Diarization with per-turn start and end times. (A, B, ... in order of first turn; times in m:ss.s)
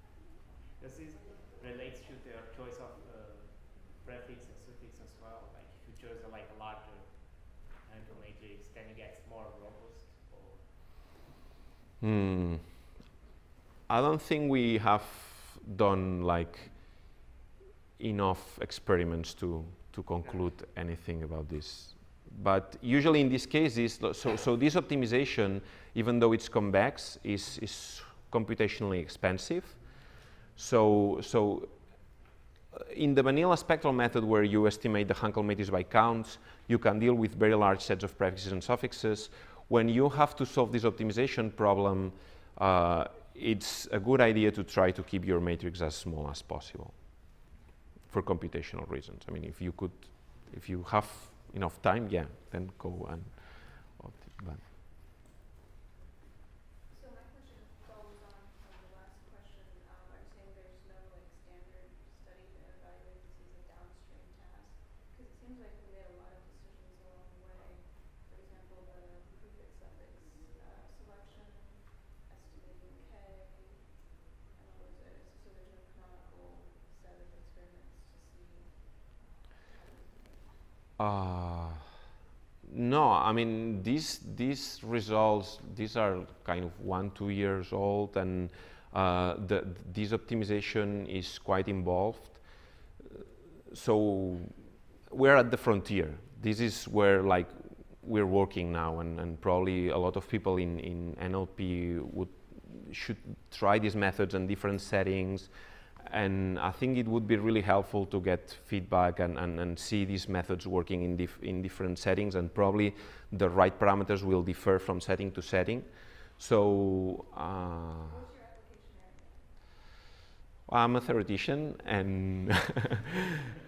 0:00.7-0:10.8 A
0:12.0-0:12.9 B
0:13.9-0:17.2 B
0:18.0-0:54.7 B
0:56.9-1:20.7 C
1:21.0-1:21.9 B
1:22.6-1:58.2 B
1:57.9-1:59.5 C
2:00.7-2:03.1 B